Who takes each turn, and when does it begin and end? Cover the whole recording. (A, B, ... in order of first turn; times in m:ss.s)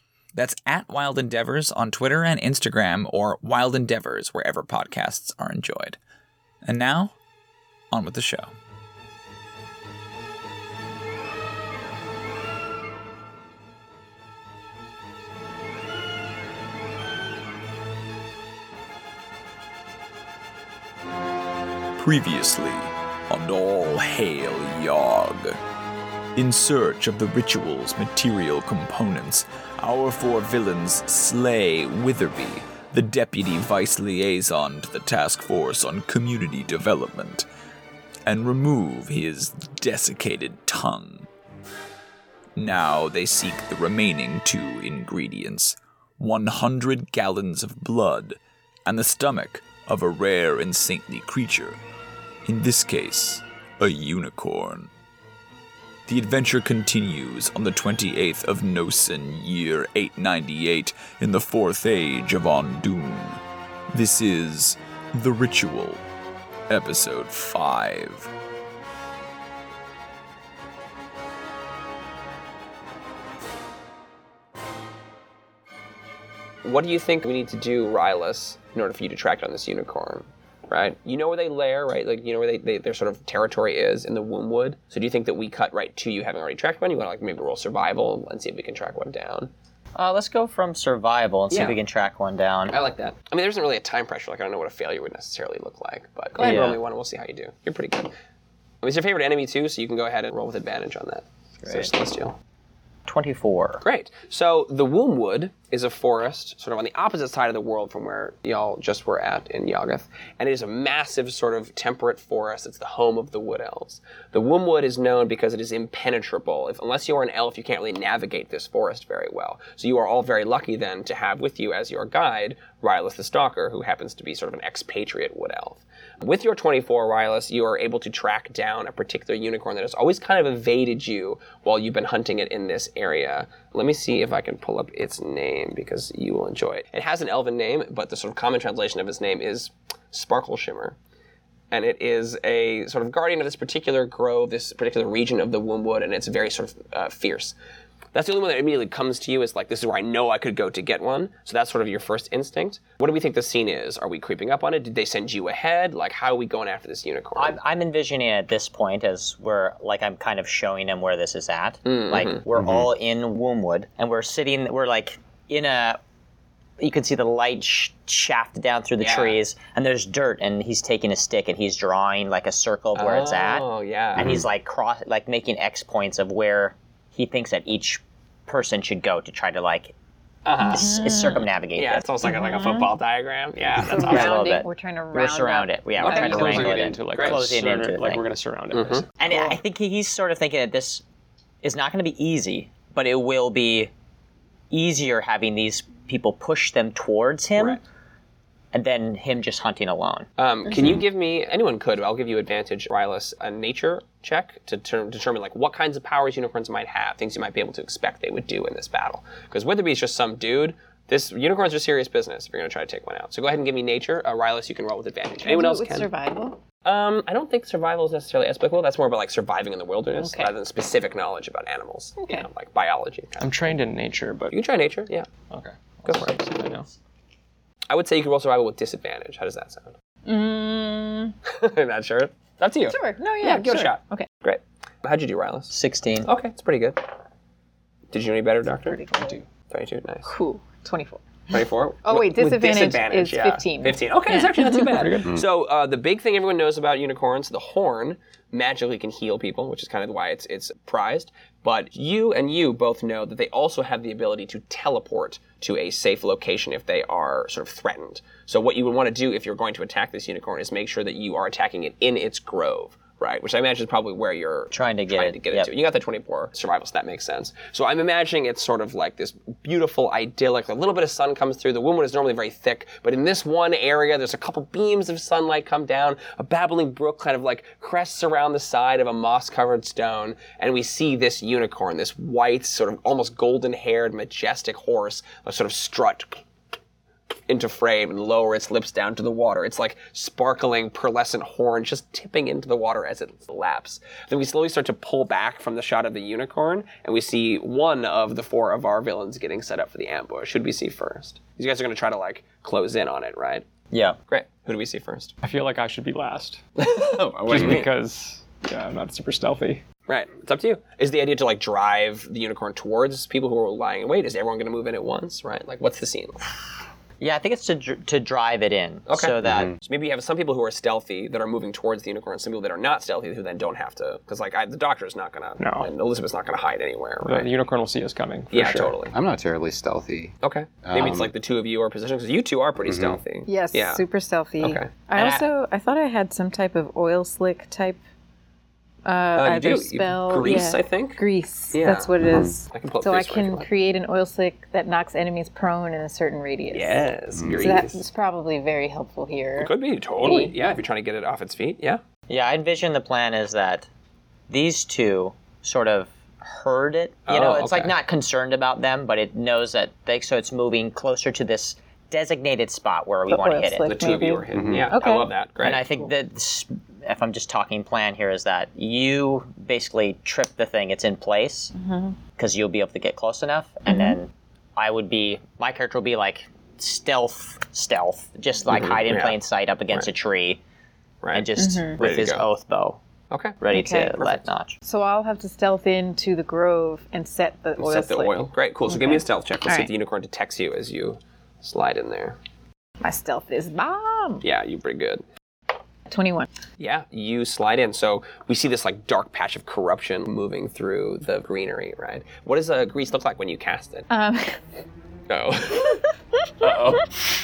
0:00.4-0:06.0 A
0:06.6-0:07.1 A
0:07.9-0:08.5 A
0:22.0-0:25.6 A
0:26.4-0:37.4 A
0:38.3-0:41.3 A
0:42.6-0:51.8 A
0:52.4-0:54.9 A
0:56.1-1:06.0 A
1:06.7-1:08.3 A
1:16.6-1:29.5 B
1:29.9-1:32.8 C
1:31.5-1:31.8 B
1:32.7-1:38.1 B
1:36.4-1:36.8 C
1:38.8-1:42.3 B
1:41.6-1:41.9 C
1:43.1-1:43.8 C
1:43.8-2:21.0 B
2:21.7-2:27.5 B
2:28.1-2:37.6 B
2:37.4-2:46.0 C
2:41.8-2:42.4 B
2:42.5-2:42.9 D
2:46.8-2:59.9 C
2:49.0-2:49.4 B
2:52.9-2:54.4 B
2:54.2-2:54.4 D
3:00.4-3:04.4 B
3:00.6-3:01.4 E
3:00.7-3:02.0 C
3:02.2-3:02.9 E
3:03.8-3:05.8 E
3:03.9-3:08.2 C
3:06.0-3:07.5 B
3:06.0-3:09.4 F
3:08.7-3:09.0 B
3:09.2-3:11.0 C
3:11.6-3:13.9 C
3:14.7-3:17.8 C
3:18.7-3:20.3 C
3:20.4-3:36.1 B
3:35.4-3:36.6 E
3:36.8-3:43.7 B
3:40.2-3:40.5 E
3:42.2-3:42.4 E
3:43.4-3:44.6 F
3:44.5-3:45.3 B
3:45.5-3:46.9 F
3:46.1-3:46.4 B
3:47.9-3:49.9 B
3:50.2-3:51.3 E
3:51.4-3:57.0 B
3:52.9-3:54.3 E
3:55.7-3:56.3 C
3:58.1-4:00.3 B
3:58.8-3:59.3 E
4:00.2-4:05.2 E
4:01.5-4:46.4 B
4:24.7-4:25.7 C
4:47.5-5:03.7 B
5:03.9-5:04.2 C
5:04.3-5:05.3 B
5:05.4-5:06.6 F
5:06.8-5:07.9 B
5:07.5-5:09.8 F
5:10.1-5:16.4 B
5:17.2-5:19.7 C
5:19.1-5:27.5 B
5:19.4-5:19.8 D
5:25.6-5:25.9 F
5:27.2-5:29.0 F
5:28.5-5:29.2 B
5:29.1-5:31.3 D
5:30.4-5:34.0 B
5:32.8-5:33.2 D
5:33.5-5:38.0 E
5:34.6-5:34.9 B
5:35.1-5:35.5 C
5:39.0-5:47.1 E
5:39.3-5:41.2 B
5:41.7-5:43.7 B
5:42.2-5:42.5 D
5:46.7-5:48.0 B
5:47.4-5:47.8 D
5:47.6-5:50.5 E
5:49.6-5:52.0 B
5:52.3-5:53.9 C
5:54.5-6:03.9 C
5:57.3-5:58.0 B
6:03.3-6:05.3 E
6:03.8-6:06.1 B
6:04.5-6:04.9 D
6:05.6-6:11.7 C
6:11.8-6:12.2 E
6:12.4-6:20.6 C
6:13.9-6:14.2 E
6:18.7-6:19.4 B
6:21.2-6:22.5 B
6:21.3-6:23.0 C
6:21.6-6:22.0 E
6:23.3-6:23.6 B
6:23.6-6:24.8 C
6:23.7-6:24.2 E
6:24.1-6:24.4 B
6:24.8-6:28.4 E
6:27.8-6:32.4 B
6:28.9-6:29.9 E
6:33.0-6:34.4 E
6:34.4-6:35.2 B
6:36.1-6:36.5 E
6:36.8-6:44.1 B
6:44.1-6:44.6 E
6:45.3-6:46.1 B
6:46.6-6:47.0 E
6:46.6-6:47.2 B